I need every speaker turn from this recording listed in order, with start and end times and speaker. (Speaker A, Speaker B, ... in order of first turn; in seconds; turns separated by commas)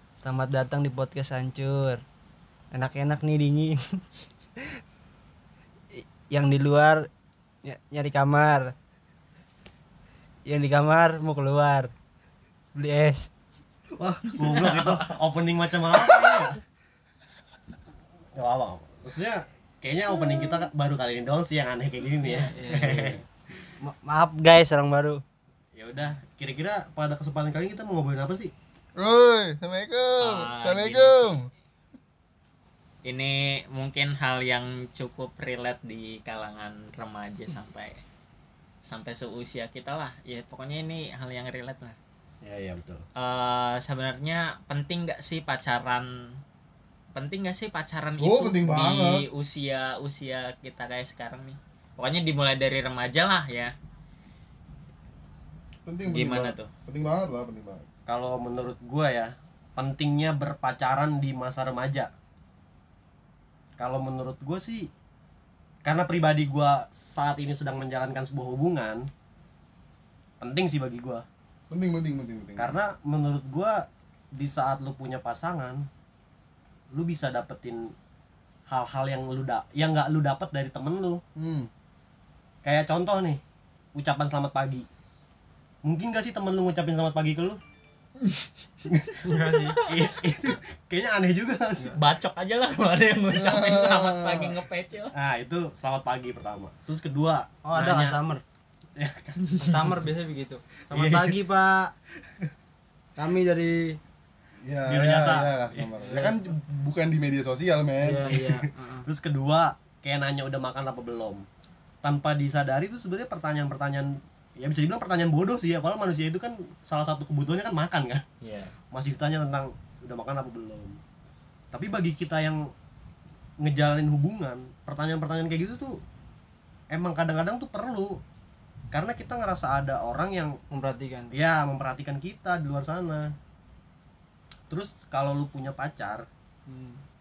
Speaker A: 0.2-2.0, Speaker A: 2.7-3.8, Speaker A: 5.9-7.1, Speaker A: 7.6-8.7, Speaker A: 10.4-11.9, Speaker A: 12.7-13.3, Speaker B: 14.0-16.6, Speaker C: 14.4-15.0, Speaker B: 18.3-23.2, Speaker C: 22.2-22.5, Speaker A: 22.4-25.2, Speaker B: 25.7-28.5, Speaker D: 29.0-31.5, Speaker C: 30.2-31.4, Speaker C: 33.0-38.0, Speaker C: 38.8-42.0, Speaker B: 42.4-43.0, Speaker C: 43.1-46.4, Speaker C: 47.1-53.7, Speaker D: 48.2-49.2, Speaker D: 55.8-57.8, Speaker C: 56.0-56.7, Speaker B: 58.1-62.1, Speaker B: 63.8-64.9, Speaker B: 65.8-69.1, Speaker B: 70.4-71.2, Speaker D: 71.7-72.8, Speaker B: 72.6-75.9, Speaker B: 76.9-77.9, Speaker B: 78.7-81.2, Speaker D: 81.3-81.7, Speaker B: 82.6-83.4, Speaker B: 83.9-84.9, Speaker B: 85.8-87.6, Speaker B: 88.9-89.2, Speaker A: 89.2-89.8, Speaker B: 89.8-91.9, Speaker C: 91.9-95.1, Speaker D: 93.3-94.6, Speaker B: 95.1-98.2, Speaker A: 97.6-98.4, Speaker B: 99.0-99.9, Speaker A: 99.6-101.9, Speaker B: 100.9-101.4, Speaker A: 103.2-104.0, Speaker D: 104.6-108.3, Speaker B: 104.8-106.3, Speaker A: 106.0-106.4, Speaker A: 108.0-109.0, Speaker B: 108.3-111.4, Speaker B: 112.0-118.2, Speaker C: 118.4-118.7, Speaker B: 118.9-121.0, Speaker B: 121.7-122.7, Speaker B: 123.6-126.0, Speaker B: 126.9-128.2, Speaker B: 128.9-130.6, Speaker A: 130.7-131.3, Speaker B: 131.3-133.3, Speaker B: 134.7-136.3, Speaker A: 136.7-137.0